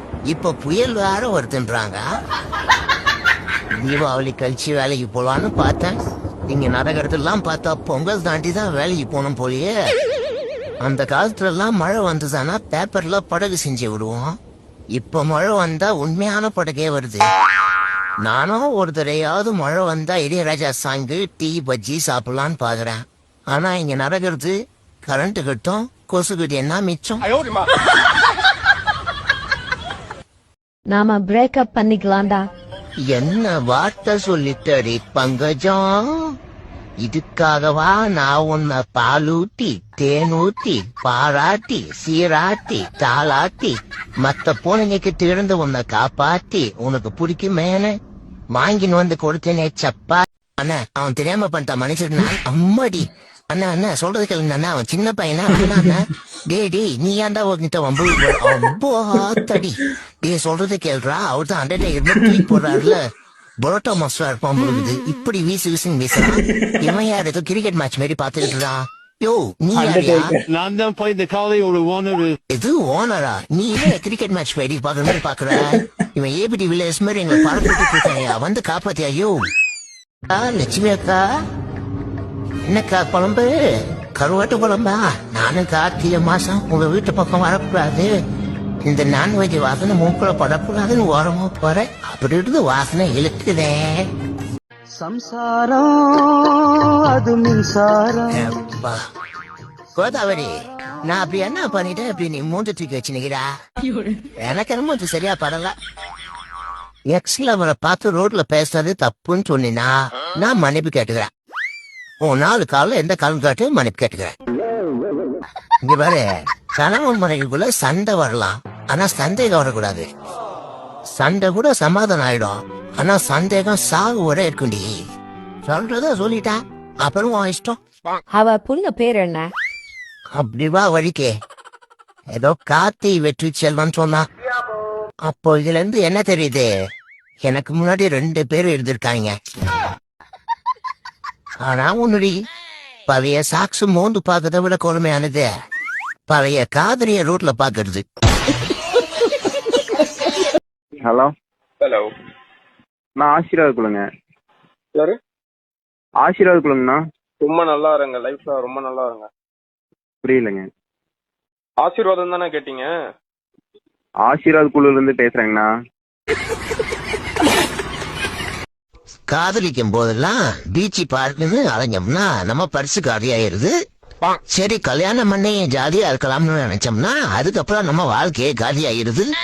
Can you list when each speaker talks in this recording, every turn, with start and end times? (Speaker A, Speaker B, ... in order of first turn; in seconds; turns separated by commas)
Speaker A: 0.3-2.0, Speaker A: 3.7-6.0, Speaker A: 6.5-9.7, Speaker A: 10.8-14.3, Speaker A: 14.9-17.2, Speaker A: 18.2-24.5, Speaker A: 25.1-27.2, Speaker B: 30.9-32.4, Speaker A: 33.1-36.0, Speaker A: 37.0-47.9, Speaker A: 48.5-63.0, Speaker A: 63.6-70.3, Speaker C: 69.7-72.3, Speaker A: 72.5-79.3, Speaker A: 80.3-81.2, Speaker A: 82.7-83.5, Speaker A: 84.2-88.1, Speaker A: 88.8-94.1, Speaker D: 95.0-96.5, Speaker D: 97.1-98.5, Speaker A: 98.3-99.0, Speaker A: 100.0-100.5, Speaker A: 101.1-103.5, Speaker A: 104.4-105.7, Speaker A: 107.1-111.3, Speaker A: 112.2-114.3, Speaker A: 115.8-116.2, Speaker A: 116.7-120.1, Speaker A: 121.2-124.9, Speaker A: 125.7-127.8, Speaker B: 128.3-129.5, Speaker A: 130.3-131.3, Speaker A: 132.3-134.2, Speaker A: 135.3-136.7, Speaker A: 137.4-139.3, Speaker A: 141.6-142.3, Speaker A: 143.1-145.5, Speaker A: 146.3-148.0, Speaker E: 151.0-151.3, Speaker F: 151.8-152.1, Speaker E: 153.2-154.0, Speaker E: 156.2-157.0, Speaker F: 157.4-159.3, Speaker E: 160.2-160.7, Speaker F: 161.8-162.9, Speaker E: 164.2-165.7, Speaker A: 169.3-173.7, Speaker A: 174.3-179.3